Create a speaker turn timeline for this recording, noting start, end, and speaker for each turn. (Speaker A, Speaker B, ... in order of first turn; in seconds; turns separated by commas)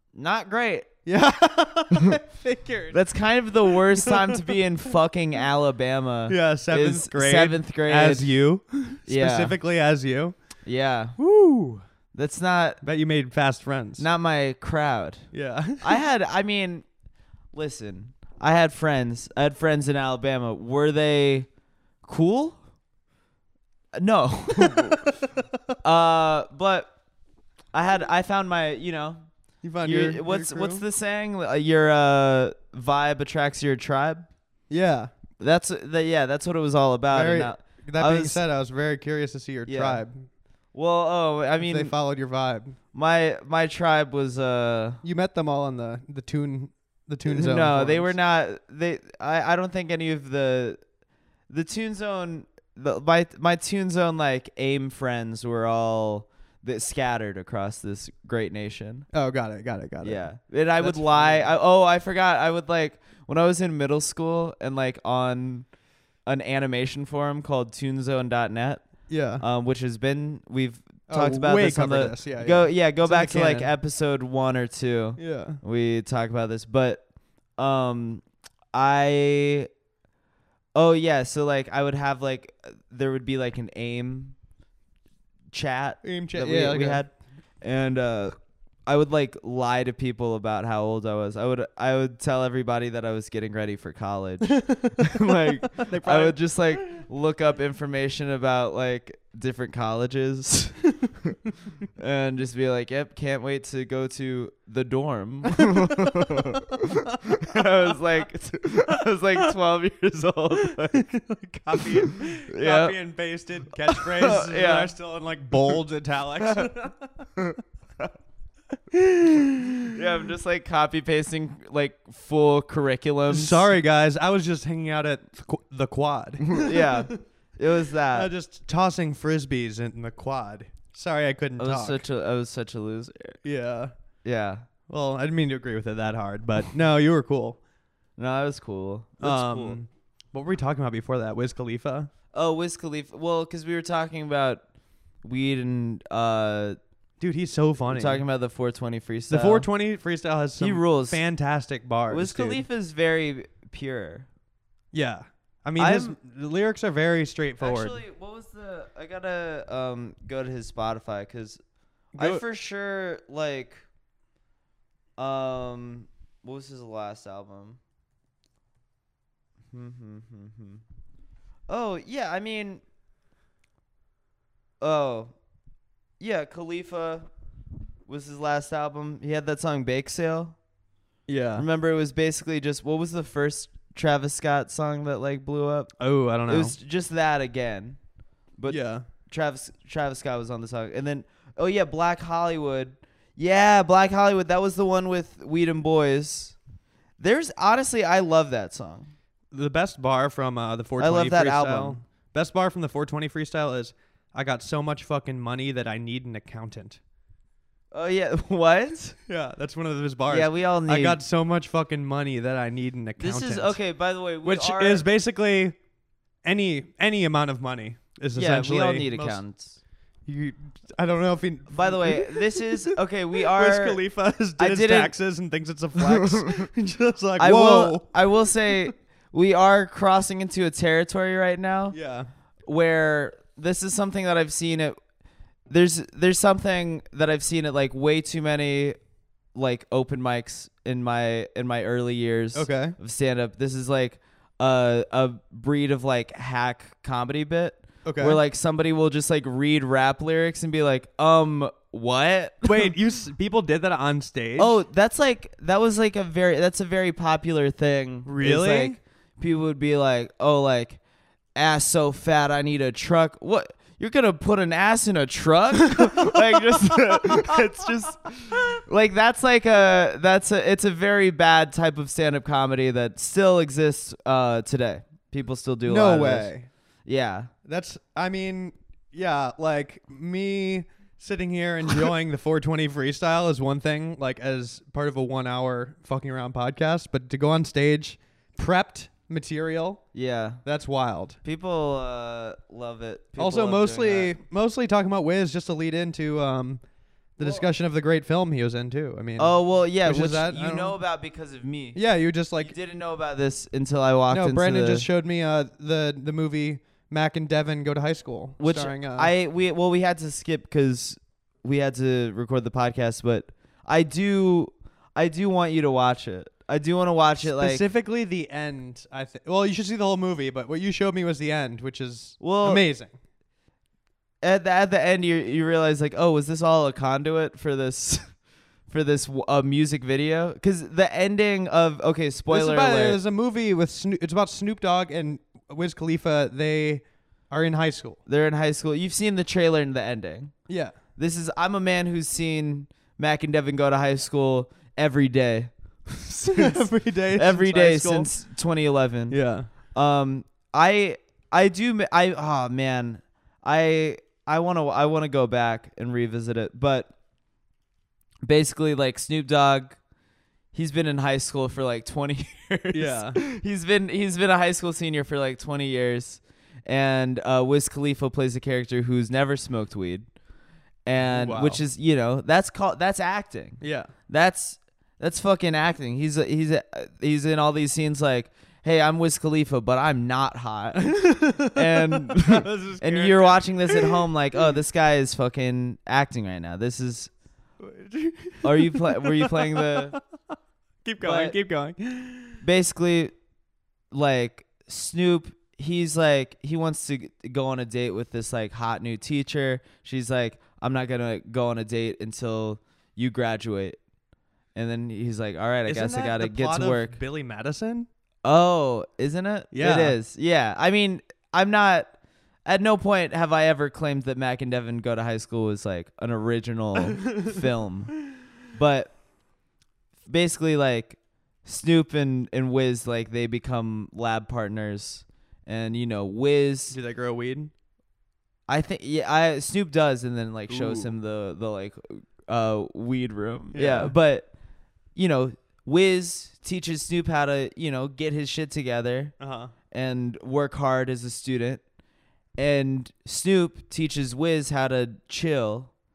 Speaker A: 0.1-0.9, Speaker B: 1.1-3.0, Speaker A: 2.9-8.3, Speaker B: 3.7-4.6, Speaker B: 6.3-10.3, Speaker A: 9.1-9.6, Speaker A: 10.7-11.2, Speaker B: 11.2-11.8, Speaker A: 12.1-12.8, Speaker B: 12.8-14.1, Speaker A: 14.0-16.9, Speaker B: 15.3-16.0, Speaker A: 17.5-21.5, Speaker A: 22.0-22.6, Speaker A: 24.0-25.1, Speaker A: 25.8-26.9, Speaker A: 27.7-29.3, Speaker B: 29.6-30.8, Speaker A: 29.8-34.3, Speaker B: 34.7-35.1, Speaker A: 35.4-38.4, Speaker B: 37.1-40.3, Speaker A: 39.7-40.0, Speaker A: 40.7-41.9, Speaker B: 41.6-42.8, Speaker A: 42.9-45.0, Speaker B: 45.0-48.1, Speaker A: 47.3-50.8, Speaker A: 51.5-59.1, Speaker B: 59.1-61.5, Speaker A: 60.0-65.7, Speaker A: 66.2-68.9, Speaker B: 69.1-69.4, Speaker A: 69.4-77.0, Speaker B: 71.1-73.7, Speaker B: 75.2-75.6, Speaker A: 77.6-79.7, Speaker A: 80.8-84.3, Speaker A: 85.5-100.9, Speaker B: 86.0-87.0, Speaker B: 94.6-95.0, Speaker B: 95.8-96.8, Speaker A: 102.0-111.1, Speaker B: 110.9-117.3, Speaker A: 111.7-113.0, Speaker A: 113.9-114.9, Speaker A: 116.4-116.7, Speaker A: 117.4-118.1, Speaker B: 118.9-119.9, Speaker A: 119.9-123.7, Speaker B: 123.3-127.2, Speaker A: 126.5-128.3, Speaker B: 128.1-132.0, Speaker A: 131.6-133.4, Speaker B: 133.4-133.9, Speaker A: 134.2-134.7, Speaker B: 134.9-137.6, Speaker A: 138.2-139.8, Speaker B: 139.2-142.1, Speaker A: 142.3-144.6, Speaker A: 145.2-146.8, Speaker B: 147.2-148.2, Speaker A: 147.9-149.7, Speaker B: 149.3-152.6, Speaker A: 150.6-151.2, Speaker A: 152.1-154.3, Speaker B: 154.9-158.0, Speaker A: 155.8-156.2, Speaker A: 157.6-161.6, Speaker B: 162.2-162.4, Speaker A: 162.2-163.8, Speaker A: 165.2-167.8, Speaker A: 169.7-170.8, Speaker A: 171.7-172.8, Speaker A: 174.8-175.3, Speaker A: 176.2-177.3, Speaker A: 178.1-180.6, Speaker B: 181.3-181.7, Speaker A: 181.6-185.9, Speaker B: 186.0-186.8, Speaker A: 186.5-188.0, Speaker A: 188.6-196.6, Speaker B: 188.7-189.1, Speaker A: 197.2-199.1, Speaker B: 199.5-207.0, Speaker A: 201.0-202.0, Speaker A: 207.9-209.2, Speaker B: 209.3-213.8, Speaker A: 210.3-211.2, Speaker A: 213.2-215.0, Speaker B: 214.4-215.8, Speaker B: 216.4-219.4, Speaker A: 218.3-219.8, Speaker B: 220.3-222.9, Speaker A: 221.7-224.0, Speaker B: 223.5-228.1, Speaker A: 224.6-225.1, Speaker A: 226.0-226.7, Speaker A: 227.4-232.0, Speaker B: 231.9-232.3, Speaker A: 232.7-235.0, Speaker A: 235.7-239.0, Speaker A: 239.5-252.9, Speaker B: 242.5-242.9, Speaker B: 248.1-248.4, Speaker B: 252.7-254.8, Speaker A: 254.6-261.0, Speaker B: 258.2-259.0, Speaker A: 261.6-276.5, Speaker B: 267.2-267.5, Speaker B: 275.9-276.7, Speaker A: 277.1-277.5, Speaker B: 277.6-290.0, Speaker A: 290.1-290.6, Speaker B: 290.6-291.4, Speaker A: 291.4-294.4, Speaker B: 293.4-296.8, Speaker B: 297.4-301.0, Speaker A: 297.4-297.6, Speaker A: 299.4-302.0, Speaker B: 301.9-302.8, Speaker A: 302.6-305.1, Speaker B: 304.3-309.3, Speaker A: 308.6-317.8, Speaker B: 317.4-323.1, Speaker A: 322.4-322.9, Speaker A: 324.4-328.3, Speaker A: 328.9-333.2, Speaker B: 332.5-338.2, Speaker A: 338.3-340.6, Speaker B: 340.7-340.9, Speaker A: 341.2-357.1, Speaker B: 346.5-348.3, Speaker B: 349.3-349.7, Speaker A: 358.4-360.0, Speaker A: 360.7-370.3, Speaker B: 362.9-363.4, Speaker A: 371.1-387.3, Speaker B: 371.2-371.8, Speaker B: 373.8-374.1, Speaker B: 381.0-384.2, Speaker B: 387.8-390.2, Speaker A: 388.6-390.2, Speaker B: 391.1-392.6, Speaker A: 391.2-391.6, Speaker A: 392.6-393.3, Speaker A: 394.1-404.0, Speaker A: 404.8-407.2, Speaker B: 405.9-408.1, Speaker A: 408.4-412.1, Speaker B: 409.7-410.2, Speaker A: 412.7-418.2, Speaker B: 417.2-417.6, Speaker A: 418.7-419.1, Speaker A: 420.3-427.0, Speaker B: 426.9-427.7, Speaker A: 428.7-434.5, Speaker B: 430.7-431.1, Speaker B: 433.7-434.1, Speaker A: 435.1-439.4, Speaker B: 439.4-439.7, Speaker A: 439.9-441.8, Speaker A: 442.6-445.9